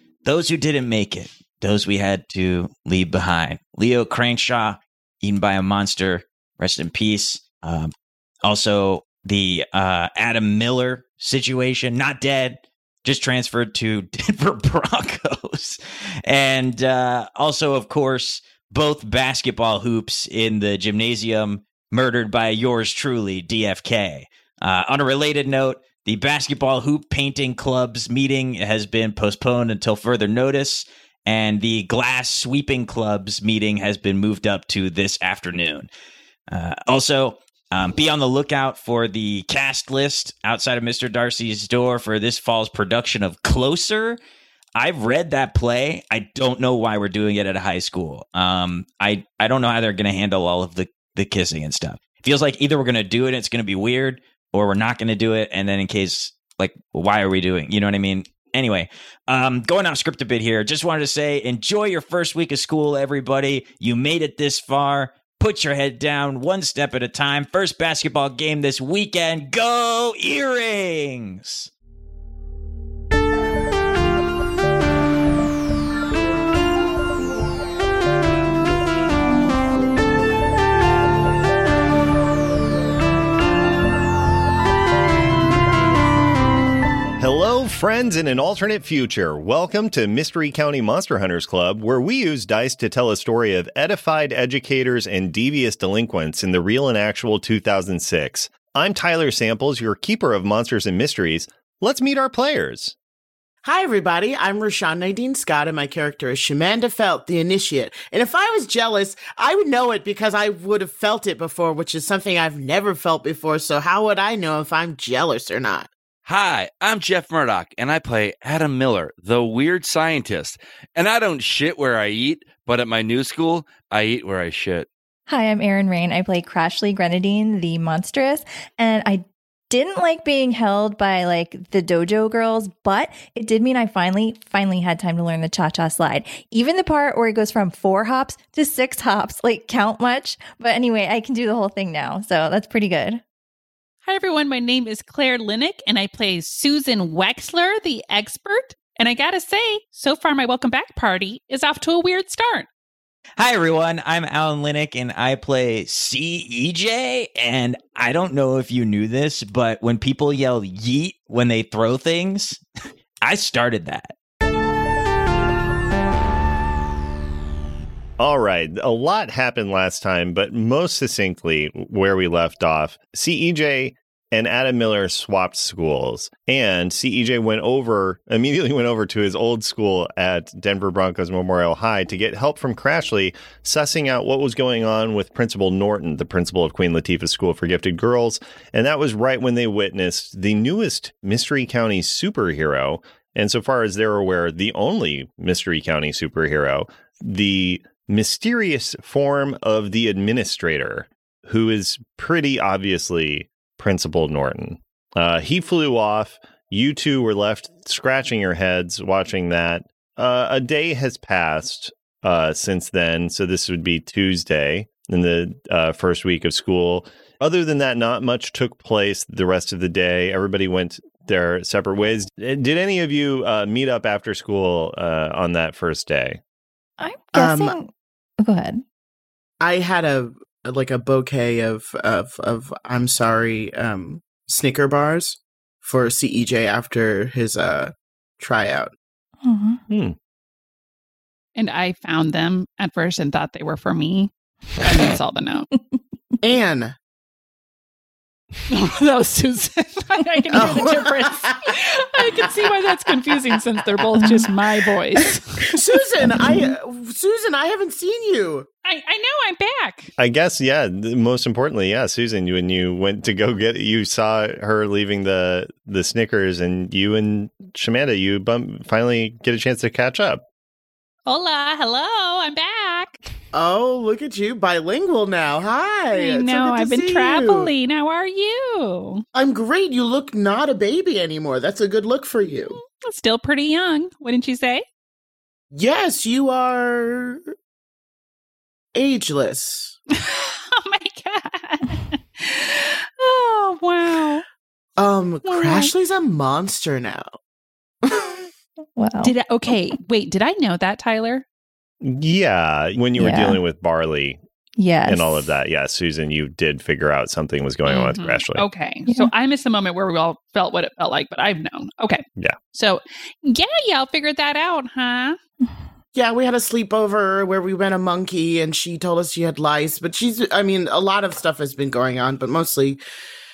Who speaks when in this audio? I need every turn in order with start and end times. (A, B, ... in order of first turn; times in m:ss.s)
0:00.2-0:07.9 A
0:08.4-0:35.9 A
0:36.5-0:44.2 A
0:44.8-1:11.7 A
1:27.2-1:42.9 B
1:43.6-1:55.9 C
1:56.2-2:04.9 D
2:05.3-2:23.2 E
2:24.0-2:32.7 F
2:33.4-2:42.6 A
2:43.2-2:44.1 A
2:48.2-3:46.4 B
3:47.0-3:47.9 E
3:47.3-3:47.8 C
3:48.4-3:48.8 E
3:49.6-3:58.9 C
3:59.4-3:59.8 E
3:59.9-4:00.1 B
4:01.6-4:05.7 F
4:06.4-4:06.9 C
4:08.7-4:15.7 F
4:10.5-4:12.6 C
4:15.7-4:18.7 C
4:16.4-4:16.7 E
4:18.8-4:20.1 F
4:20.2-4:30.4 B
4:31.2-4:33.2 F
4:33.5-4:37.7 C
4:36.1-4:39.2 F
4:39.3-4:42.8 C
4:42.7-4:44.8 F
4:45.7-4:47.4 C
4:48.9-4:50.0 C
4:50.1-4:54.4 F
4:55.0-4:57.3 C
4:55.4-4:55.9 E
4:58.0-4:58.5 C
4:59.0-4:59.3 E
4:59.2-5:01.4 F
5:02.0-5:04.4 B
5:03.1-5:03.6 E
5:04.8-5:05.5 E
5:05.0-5:08.6 B
5:07.8-5:15.4 F
5:09.1-5:09.3 E
5:16.1-5:23.0 C